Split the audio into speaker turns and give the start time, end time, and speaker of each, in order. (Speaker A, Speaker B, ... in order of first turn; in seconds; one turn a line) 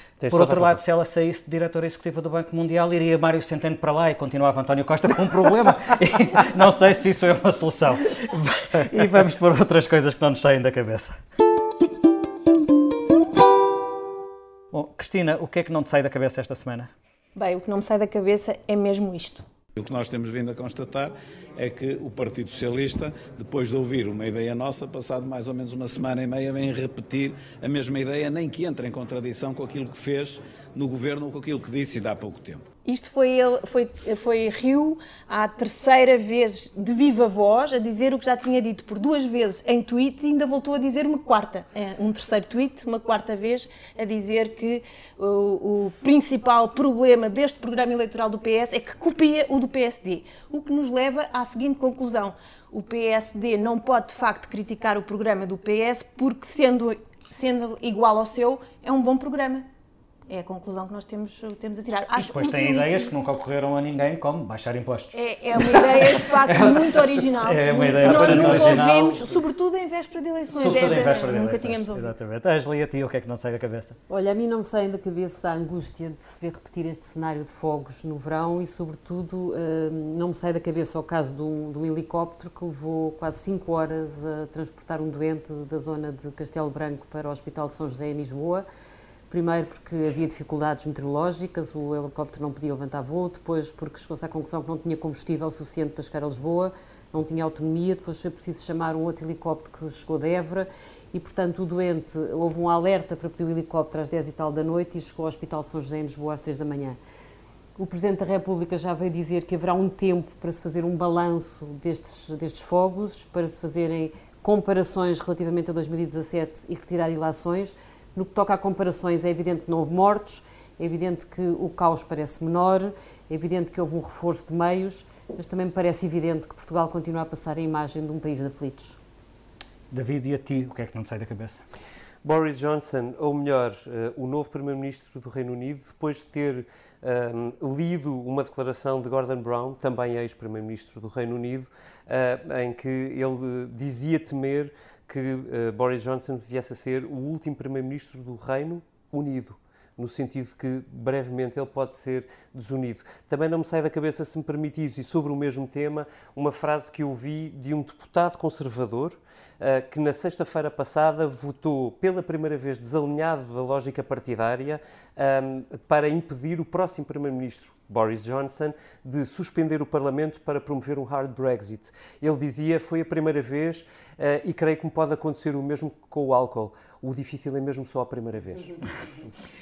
Speaker A: 0.2-0.8
Speaker B: 0.3-11.1
Speaker B: 14.7-16.9
Speaker C: 17.3-19.4
Speaker D: 19.8-32.6
Speaker C: 32.8-59.7
Speaker C: 60.3-63.1
Speaker B: 62.1-69.3
Speaker C: 65.1-72.1
Speaker A: 68.0-68.7
Speaker B: 70.5-74.0
Speaker E: 74.1-88.6
Speaker E: 89.3-107.0
Speaker E: 107.8-129.0
Speaker B: 129.9-131.6
Speaker A: 132.2-178.8